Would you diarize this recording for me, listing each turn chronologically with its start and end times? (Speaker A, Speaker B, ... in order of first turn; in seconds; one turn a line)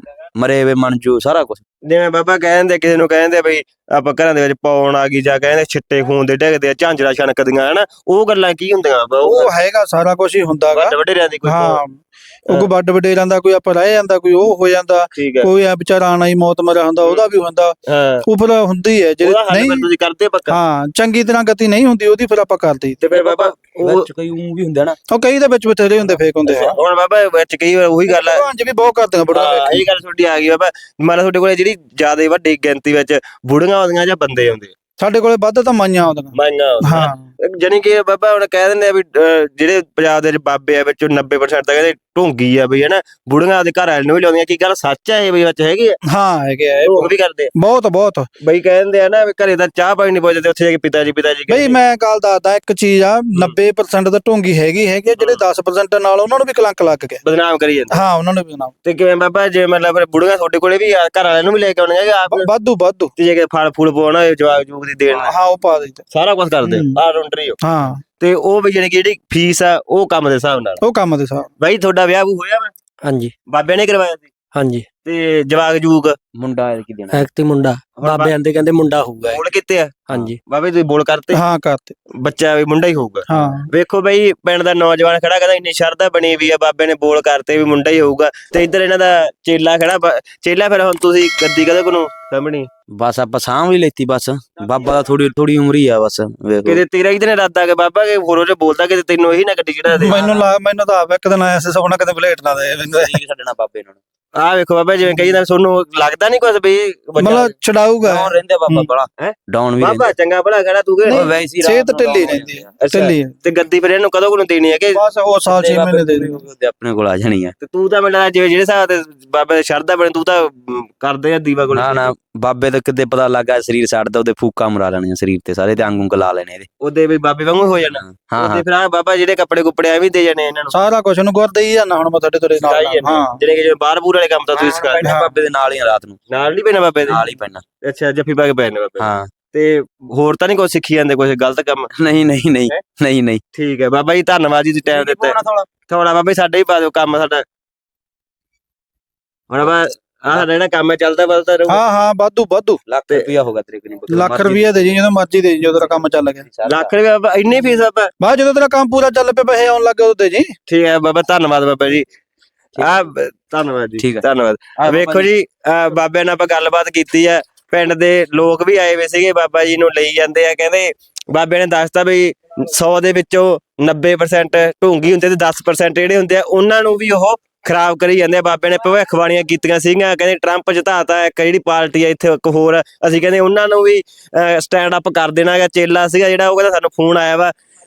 Speaker A: 0.3-1.6
Speaker B: 1.9-9.5
Speaker C: 9.2-19.9
Speaker B: 10.7-11.8
Speaker B: 15.2-15.5
Speaker B: 17.9-18.2
Speaker B: 19.2-20.6
Speaker C: 20.5-23.0
Speaker B: 23.0-24.1
Speaker A: 23.1-25.0
Speaker C: 25.1-26.7
Speaker B: 26.0-28.4
Speaker C: 28.1-29.9
Speaker B: 29.3-34.7
Speaker C: 35.0-37.2
Speaker B: 36.3-46.0
Speaker C: 46.1-48.3
Speaker B: 46.8-47.5
Speaker B: 48.4-51.8
Speaker C: 51.5-57.2
Speaker B: 57.2-58.0
Speaker C: 57.9-58.7
Speaker B: 58.8-62.5
Speaker C: 62.3-63.1
Speaker B: 63.1-65.3
Speaker C: 65.1-66.0
Speaker B: 66.1-67.6
Speaker C: 66.6-67.0
Speaker C: 67.6-68.0
Speaker B: 68.2-70.8
Speaker C: 70.8-71.5
Speaker B: 71.6-72.7
Speaker D: 73.0-73.3
Speaker B: 73.5-74.3
Speaker D: 74.5-74.9
Speaker B: 75.0-76.2
Speaker A: 76.3-77.3
Speaker D: 77.1-79.4
Speaker B: 78.0-78.3
Speaker B: 79.2-81.4
Speaker D: 80.1-80.4
Speaker C: 81.3-81.9
Speaker B: 82.2-92.7
Speaker C: 83.3-83.7
Speaker A: 92.9-96.8
Speaker B: 96.6-100.4
Speaker C: 100.0-103.2
Speaker A: 103.0-104.0
Speaker B: 104.4-107.5
Speaker C: 107.2-108.9
Speaker A: 108.0-110.1
Speaker B: 109.2-111.2
Speaker C: 111.0-113.3
Speaker A: 111.1-112.7
Speaker B: 112.8-115.0
Speaker C: 114.9-116.3
Speaker A: 115.5-117.5
Speaker B: 117.6-122.1
Speaker A: 121.7-126.7
Speaker B: 126.8-130.7
Speaker A: 127.8-128.6
Speaker C: 130.7-133.4
Speaker B: 132.6-135.1
Speaker A: 134.5-136.2
Speaker C: 135.0-135.3
Speaker B: 136.3-137.2
Speaker A: 137.1-137.6
Speaker B: 137.8-141.9
Speaker A: 139.0-139.3
Speaker A: 141.9-143.4
Speaker B: 143.5-147.4
Speaker A: 144.9-145.7
Speaker B: 149.5-151.8
Speaker C: 151.7-152.8
Speaker A: 152.9-154.8
Speaker C: 154.1-156.4
Speaker A: 155.8-156.9
Speaker B: 156.6-158.1
Speaker C: 158.2-160.5
Speaker B: 160.7-162.0
Speaker A: 162.7-163.0
Speaker B: 162.8-187.5
Speaker A: 164.8-165.3